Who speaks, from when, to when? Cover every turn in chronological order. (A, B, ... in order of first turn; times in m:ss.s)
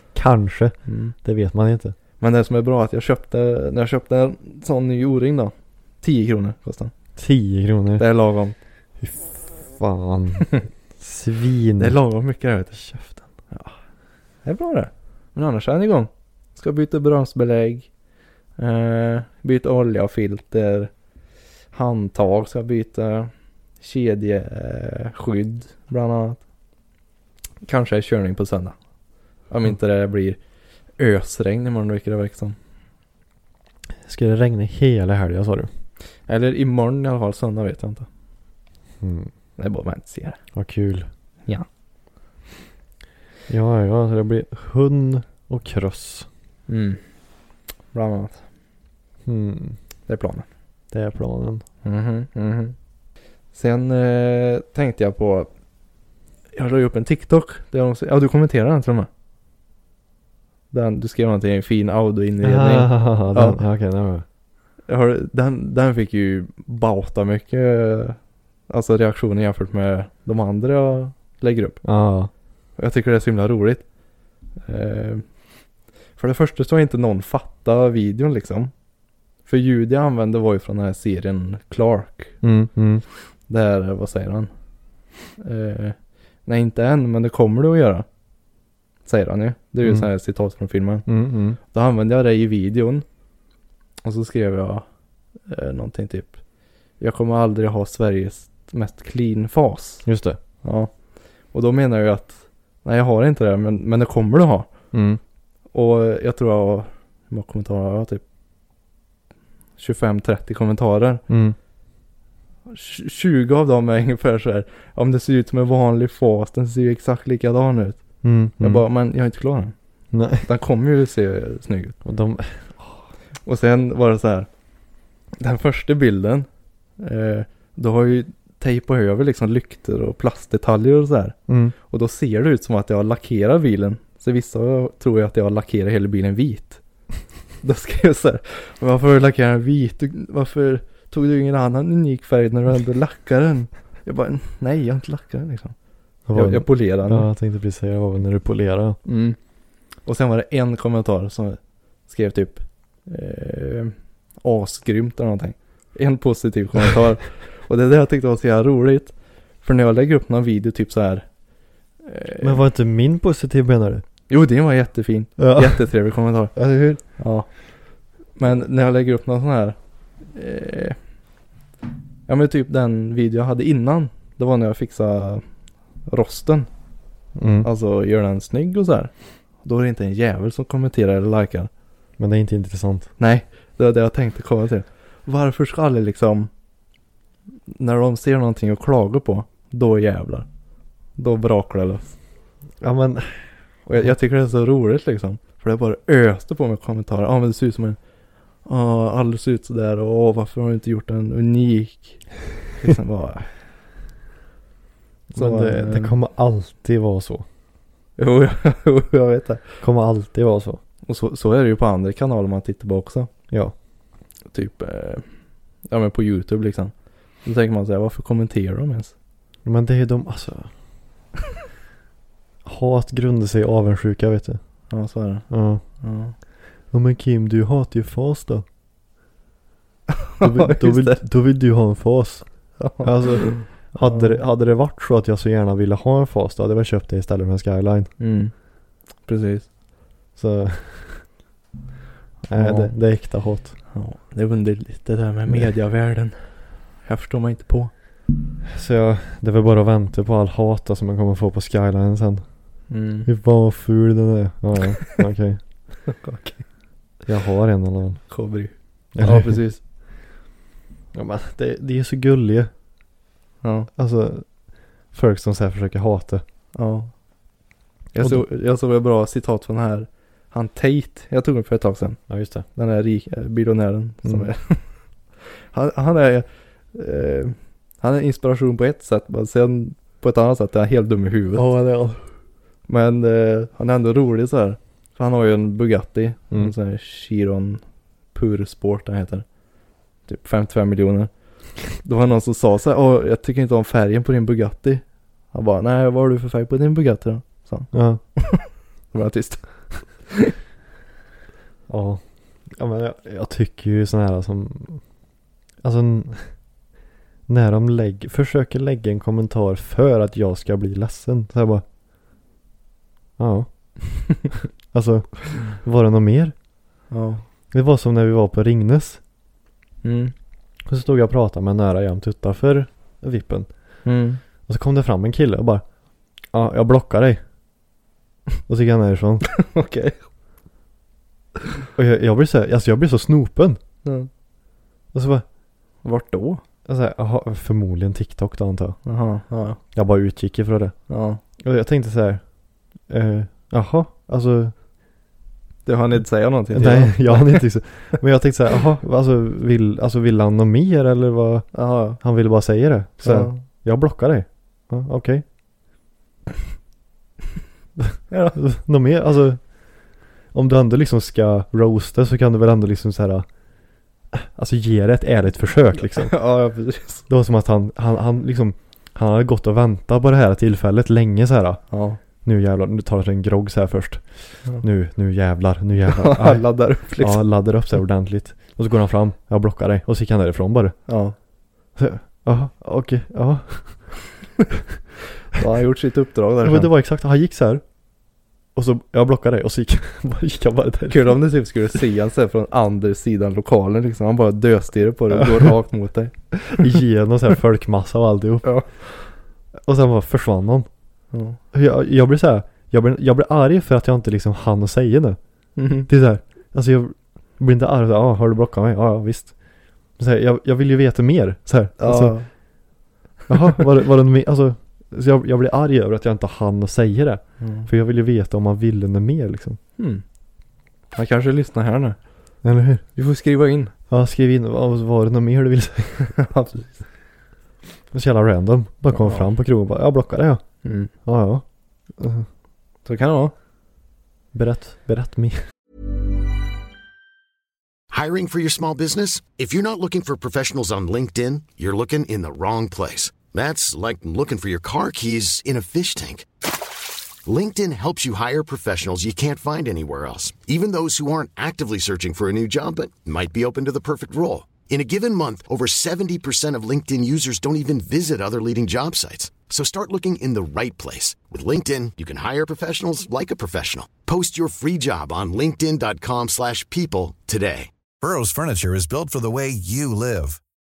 0:00.1-0:01.9 A
0:00.8-0:01.1 B
0:02.2-0:06.9 B
0:07.2-0:08.0 A
0:08.0-0:08.5 B
0:09.0-0:12.0 A
0:11.8-0:12.8 B
0:12.7-0:13.2 A
0:14.4-0:17.9 B
0:18.6-0:20.9 B
0:21.7-0:26.4 B
0:27.6-0:28.8 B
0:29.5-0:30.4 B
0:31.0-0:32.6 B
0:34.0-0:35.7 A
0:36.3-0:38.1 B
0:39.0-0:39.3 A
0:39.6-0:40.4 B
0:40.5-0:41.1 A
0:43.5-0:46.3 A
0:46.7-0:47.0 B
0:47.9-0:48.4 B
0:49.2-0:49.8 A
0:50.1-0:50.4 B
0:50.9-0:51.6 A
0:51.8-0:52.7 B
0:53.5-0:55.5 B
0:56.5-0:59.1 B
1:00.7-1:03.6 B
1:02.4-1:04.2 A
1:04.9-1:11.8 B
1:11.8-1:12.3 A
1:12.8-1:13.8 B
1:14.6-1:15.2 B
1:16.2-1:18.7 B
1:19.4-1:22.4 B
1:22.4-1:23.0 A
1:23.5-1:24.5 B
1:25.4-1:28.0 B
1:29.0-1:31.0 B
1:31.0-1:31.6 A
1:31.7-1:33.0 B
1:34.0-1:34.8 B
1:35.5-1:36.4 B
1:37.0-1:40.0 B
1:40.0-1:40.4 A
1:40.6-1:40.9 B
1:41.5-1:44.7 B
1:44.9-1:45.2 A
1:45.7-1:48.2 B
1:49.8-1:51.2 B
1:51.3-1:51.6 A
1:52.7-1:58.0 B
1:58.2-1:58.8 A
1:58.6-1:59.7 B
2:00.1-2:00.4 A
2:00.4-2:02.0 B
2:02.0-2:03.0 A
2:03.4-2:04.5 B
2:05.4-2:06.5 B
2:07.0-2:16.8 B
2:11.5-2:11.7 A
2:17.6-2:25.7 B
2:26.3-2:29.0 A
2:26.3-2:27.3 B
2:29.0-2:29.4 B
2:30.0-2:41.2 B
2:42.0-2:42.6 B
2:42.4-2:44.0 A
2:44.3-2:46.6 B
2:45.4-2:45.9 A
2:46.5-2:47.0 A
2:47.1-2:47.5 B
2:48.4-2:49.8 B
2:50.3-2:51.0 B
2:52.3-2:55.4 B
2:56.1-2:56.7 B
2:57.4-2:57.7 A
2:57.6-2:59.1 B
2:59.6-3:01.7 B
3:02.2-3:03.1 A
3:03.2-3:06.5 B
3:07.7-3:10.5 B
3:11.2-3:12.1 B
3:12.8-3:13.4 A
3:13.9-3:18.0 B
3:18.6-3:23.5 B
3:25.3-3:27.4 A
3:25.3-3:26.1 B
3:28.2-3:29.6 B
3:29.8-3:30.8 A
3:31.0-3:33.3 B
3:34.5-3:35.3 B
3:35.8-3:39.1 B
3:39.6-3:40.7 A
3:42.6-3:44.6 A
3:44.9-3:46.3 B
3:45.5-3:45.8 A
3:46.9-3:48.6 A
3:50.4-3:51.2 B
3:50.4-3:58.1 A
3:52.8-3:54.3 B
3:58.2-3:58.5 B
3:59.2-3:59.7 B
4:00.4-4:01.2 A
4:02.4-4:02.9 B
4:02.5-4:03.7 A
4:03.9-4:07.9 B
4:08.7-4:12.4 A
4:12.9-4:13.3 B
4:13.2-4:15.6 A
4:16.1-4:16.6 B
4:17.3-4:18.3 A
4:18.3-4:19.8 B
4:19.1-4:19.6 A
4:21.1-4:22.7 A
4:23.6-4:23.9 B
4:23.9-4:24.6 A
4:25.1-4:26.4 A
4:26.7-4:27.2 B
4:28.1-4:32.2 B
4:32.3-4:32.6 A
4:32.7-4:34.9 B
4:35.7-4:41.6 B
4:41.5-4:42.2 A
4:42.9-4:47.8 B
4:48.3-4:49.4 B
4:50.3-4:51.3 B
4:51.9-5:00.5 B
4:57.9-4:58.2 A
5:01.9-5:05.0 A
5:05.8-5:06.5 A
5:07.5-5:11.8 A
5:13.4-5:14.3 A
5:14.9-5:16.5 A
5:17.1-5:17.4 B
5:17.7-5:19.2 A
5:20.0-5:20.3 B
5:20.8-5:23.7 A
5:24.0-5:24.4 B
5:24.6-5:25.8 A
5:26.5-5:27.4 A
5:28.7-5:29.5 A
5:29.5-5:30.2 B
5:32.0-5:33.8 A
5:35.1-5:35.4 A
5:36.0-5:36.6 B
5:36.8-5:39.0 A
5:39.0-5:39.8 B
5:39.9-5:40.9 A
5:41.1-5:41.4 B
5:41.6-5:42.4 A
5:43.1-5:44.7 A
5:45.8-5:47.7 B
5:46.7-5:55.4 A
5:51.7-5:52.2 B
5:53.2-5:53.6 B
5:58.0-5:59.6 A
5:58.3-5:58.6 B
6:00.5-6:03.4 A
6:04.3-6:06.3 A
6:06.1-6:07.3 B
6:07.3-6:11.8 A
6:11.9-6:12.2 B
6:12.4-6:21.0 A
6:16.1-6:17.4 B
6:21.1-6:21.3 B
6:22.0-6:24.1 A
6:25.5-6:26.9 B
6:26.6-6:27.8 A
6:28.7-6:31.4 A
6:31.1-6:36.9 B
6:36.7-6:39.0 A
6:38.6-6:39.1 B
6:39.8-6:40.9 A
6:41.3-6:41.6 B
6:41.7-6:45.4 A
6:45.8-6:46.1 B
6:46.1-6:49.5 A
6:50.2-6:52.4 A
6:52.0-6:52.5 B
6:53.5-6:59.8 A
6:57.6-6:57.9 B
7:00.0-7:00.2 B
7:01.1-7:02.2 B
7:02.6-7:03.0 A
7:03.2-7:03.9 B
7:04.1-7:06.3 A
7:06.2-7:07.0 B
7:08.1-7:10.6 A
7:09.1-7:09.5 B
7:10.8-7:11.1 B
7:11.2-7:11.6 A
7:12.2-7:12.5 A
7:13.0-7:13.5 B
7:14.5-7:15.6 A
7:18.1-7:26.5 C
7:27.4-7:47.9 C
7:48.2-7:50.6 D